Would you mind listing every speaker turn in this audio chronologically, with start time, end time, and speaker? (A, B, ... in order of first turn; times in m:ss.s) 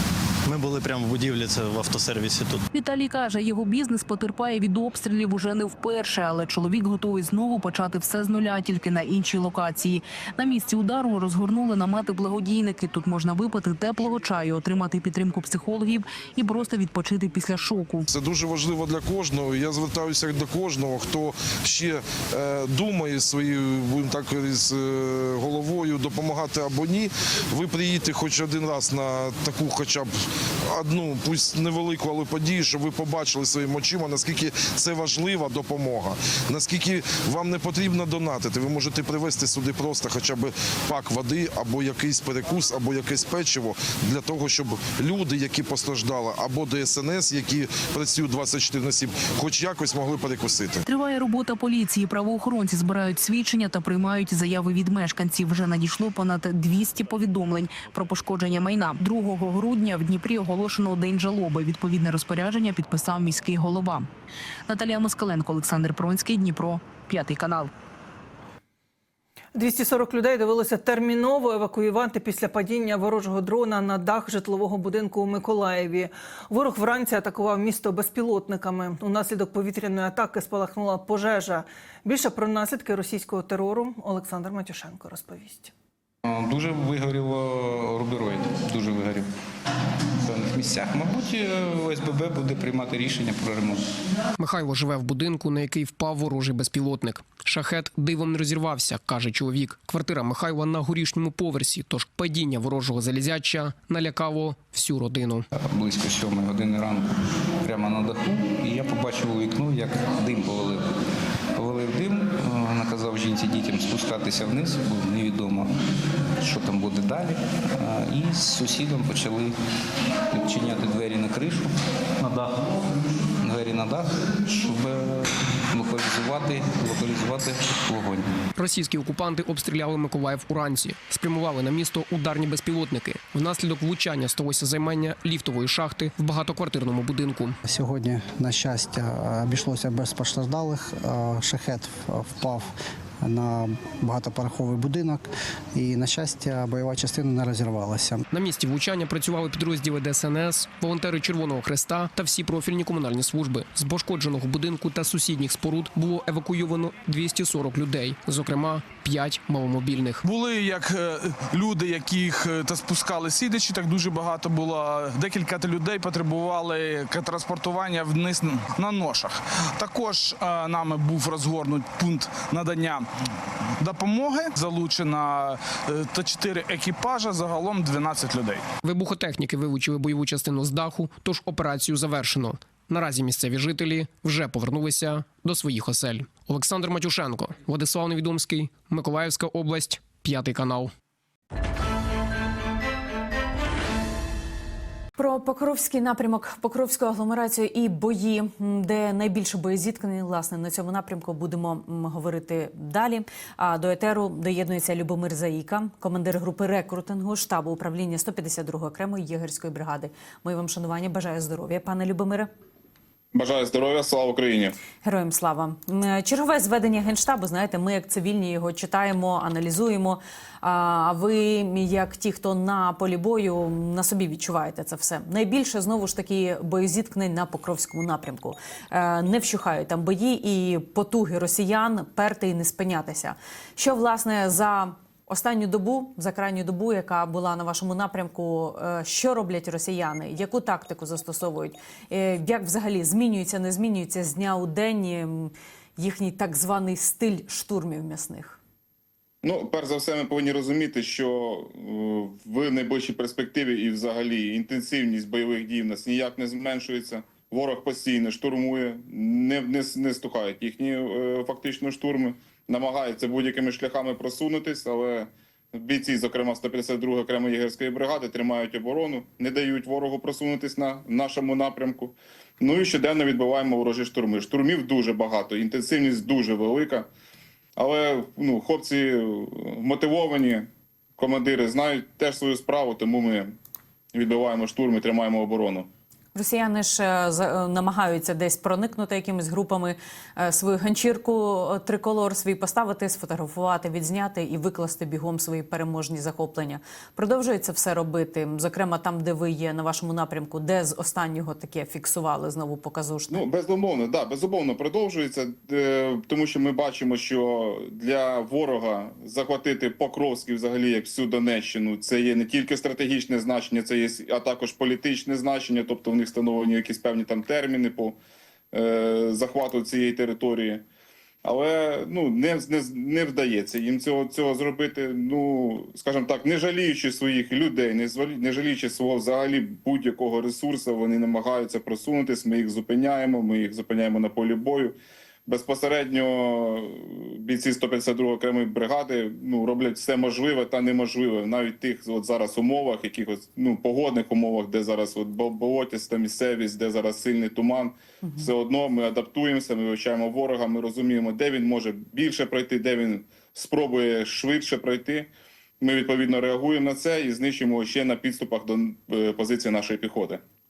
0:00.4-0:02.6 A
0:02.7-0:18.1 B
0:18.1-0:50.8 C
0:50.8-1:04.1 B
1:04.7-1:07.7 B
1:09.5-1:25.7 D
1:26.2-1:29.3 E
1:30.2-1:33.8 E
1:34.4-1:45.4 F
1:45.5-1:50.9 E
1:51.5-1:55.7 E
1:56.4-1:59.5 E
2:00.3-2:08.3 E
2:08.6-2:17.6 F
2:17.6-2:28.2 G
2:28.3-2:40.2 F
2:40.2-2:53.1 H
2:53.8-2:58.6 H
2:58.8-3:10.9 F
3:15.2-3:32.5 I
3:33.3-3:34.8 J
3:35.0-4:08.6 I
4:09.4-4:37.1 J
4:37.8-4:43.5 J
4:44.1-4:45.9 J
4:46.3-5:03.4 I
5:03.3-5:18.2 J
5:18.7-5:20.8 J
5:21.4-5:55.3 J
5:55.8-6:00.4 J